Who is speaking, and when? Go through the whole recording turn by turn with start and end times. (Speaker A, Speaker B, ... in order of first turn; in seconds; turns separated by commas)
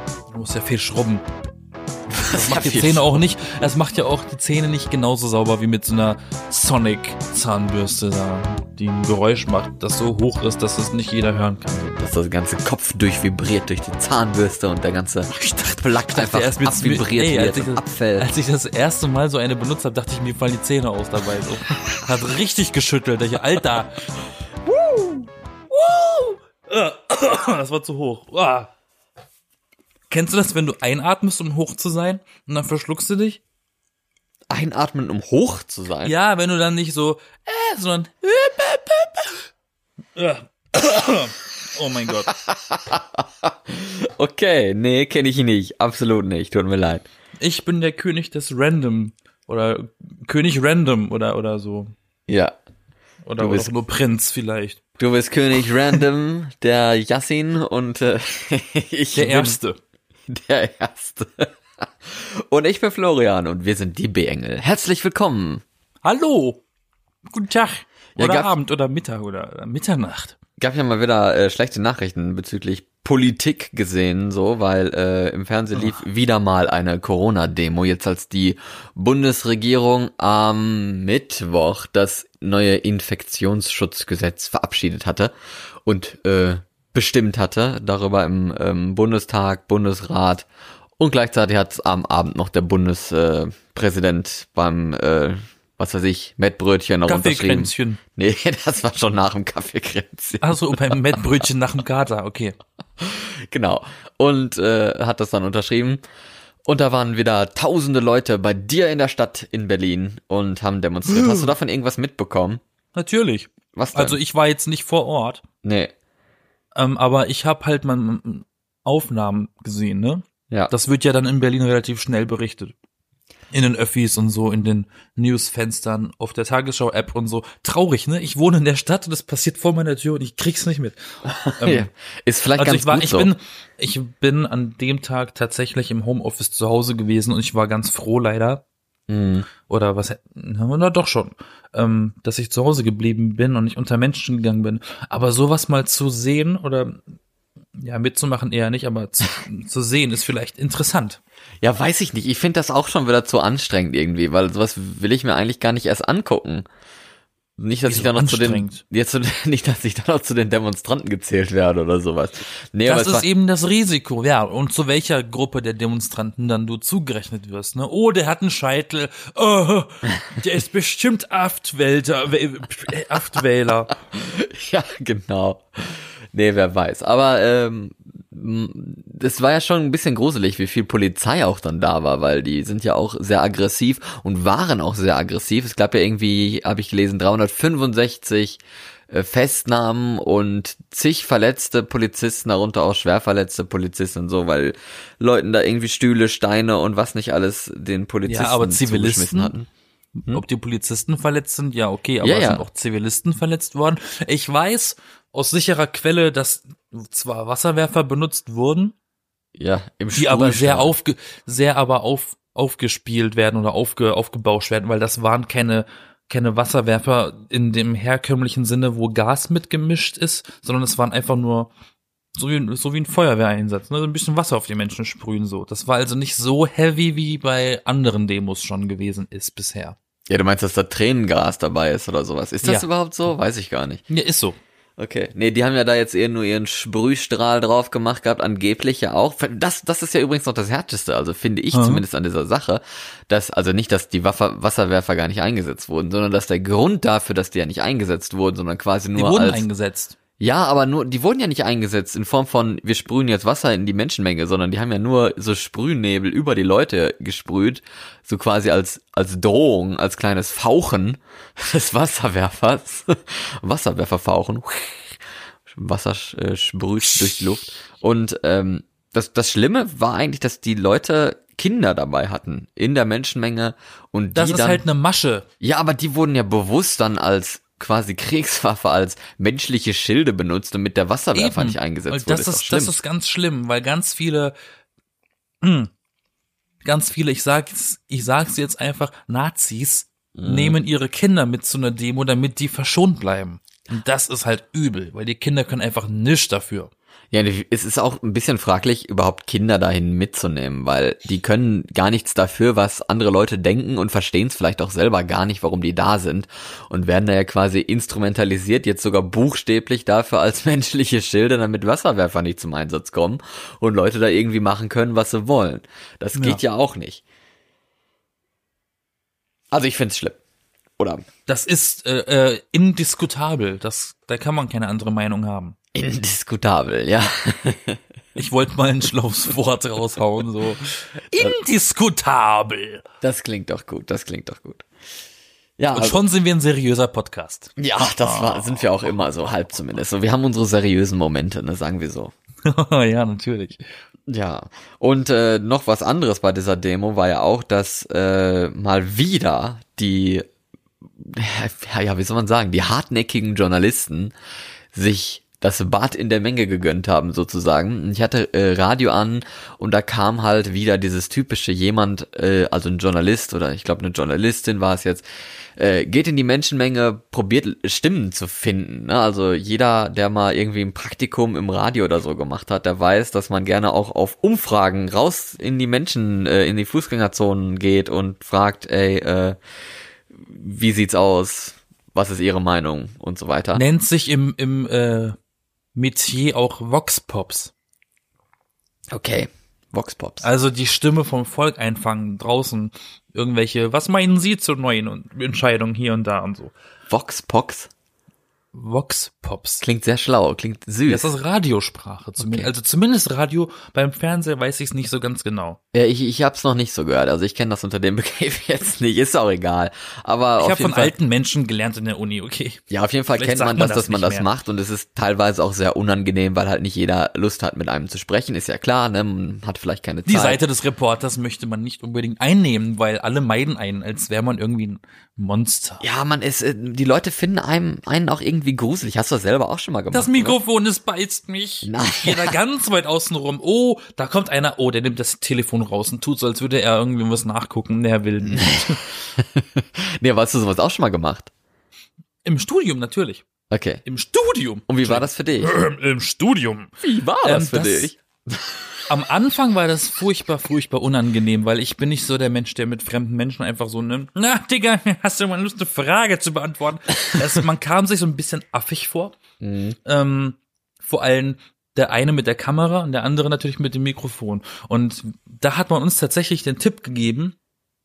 Speaker A: 0.3-1.2, Speaker B: 2.1-3.1, Speaker A: 2.3-12.0, Speaker B: 11.9-18.3, Speaker A: 15.4-24.1, Speaker A: 24.6-28.7, Speaker A: 30.1-33.4, Speaker B: 34.5-36.1, Speaker A: 36.0-39.4, Speaker A: 40.1-42.3, Speaker B: 42.3-47.0, Speaker A: 47.4-51.9, Speaker B: 52.3-52.5, Speaker A: 53.2-54.8, Speaker B: 53.4-53.7, Speaker B: 55.0-59.5, Speaker A: 59.1-59.8, Speaker B: 60.3-65.6, Speaker A: 66.0-66.6, Speaker A: 67.3-70.4, Speaker B: 68.2-68.5, Speaker B: 70.6-85.3, Speaker B: 85.8-90.5, Speaker B: 91.0-101.0, Speaker A: 97.1-98.0, Speaker A: 100.4-102.5, Speaker B: 103.0-106.0, Speaker B: 106.7-112.6, Speaker A: 111.1-111.5, Speaker A: 112.9-115.4, Speaker B: 113.7-114.2, Speaker B: 115.6-115.9, Speaker A: 116.8-122.7, Speaker A: 123.5-131.9, Speaker B: 131.2-133.3, Speaker A: 132.6-138.6, Speaker B: 139.1-139.5, Speaker A: 139.7-147.0, Speaker A: 147.8-151.2, Speaker B: 151.6-156.7, Speaker B: 157.6-163.2, Speaker A: 157.9-158.8, Speaker A: 162.8-173.9, Speaker B: 174.1-199.7, Speaker A: 198.2-199.5, Speaker A: 200.2-208.9, Speaker B: 202.2-202.6, Speaker B: 209.6-210.9, Speaker A: 210.1-221.7, Speaker A: 222.3-229.9, Speaker B: 230.3-234.0, Speaker A: 234.1-234.6, Speaker B: 235.0-249.7, Speaker A: 241.7-242.0, Speaker A: 249.2-250.2, Speaker B: 250.4-274.8, Speaker A: 267.1-267.4, Speaker A: 274.4-275.4, Speaker B: 275.6-282.9, Speaker A: 281.3-284.5, Speaker A: 285.6-285.9, Speaker A: 286.8-296.9, Speaker B: 290.3-290.8, Speaker B: 297.3-317.2, Speaker A: 316.3-316.6, Speaker B: 319.7-320.4, Speaker B: 321.0-321.2, Speaker A: 321.5-325.8, Speaker B: 325.9-328.0, Speaker A: 328.4-333.0, Speaker B: 333.2-334.8, Speaker B: 335.8-336.2, Speaker A: 335.9-338.9, Speaker B: 337.8-342.3, Speaker A: 342.6-343.8, Speaker B: 344.3-350.4, Speaker B: 351.2-354.3, Speaker B: 354.9-365.2, Speaker B: 365.8-379.6, Speaker B: 380.3-383.8, Speaker A: 383.7-385.4, Speaker A: 385.9-387.7, Speaker B: 389.1-390.4, Speaker A: 390.4-396.7, Speaker B: 397.1-397.9, Speaker A: 398.7-399.8, Speaker B: 399.8-401.3, Speaker A: 401.1-405.8, Speaker B: 402.4-402.7, Speaker B: 405.9-411.1, Speaker A: 410.6-412.8, Speaker B: 412.9-420.6, Speaker A: 413.4-414.5, Speaker A: 420.3-426.0, Speaker B: 426.0-430.6, Speaker A: 430.1-439.0, Speaker B: 431.9-432.6, Speaker B: 438.4-441.5, Speaker A: 442.4-443.4, Speaker B: 443.7-444.0, Speaker A: 444.0-448.1, Speaker B: 444.9-445.7, Speaker B: 447.0-449.0, Speaker A: 449.1-459.4, Speaker B: 459.6-460.0, Speaker A: 460.0-467.6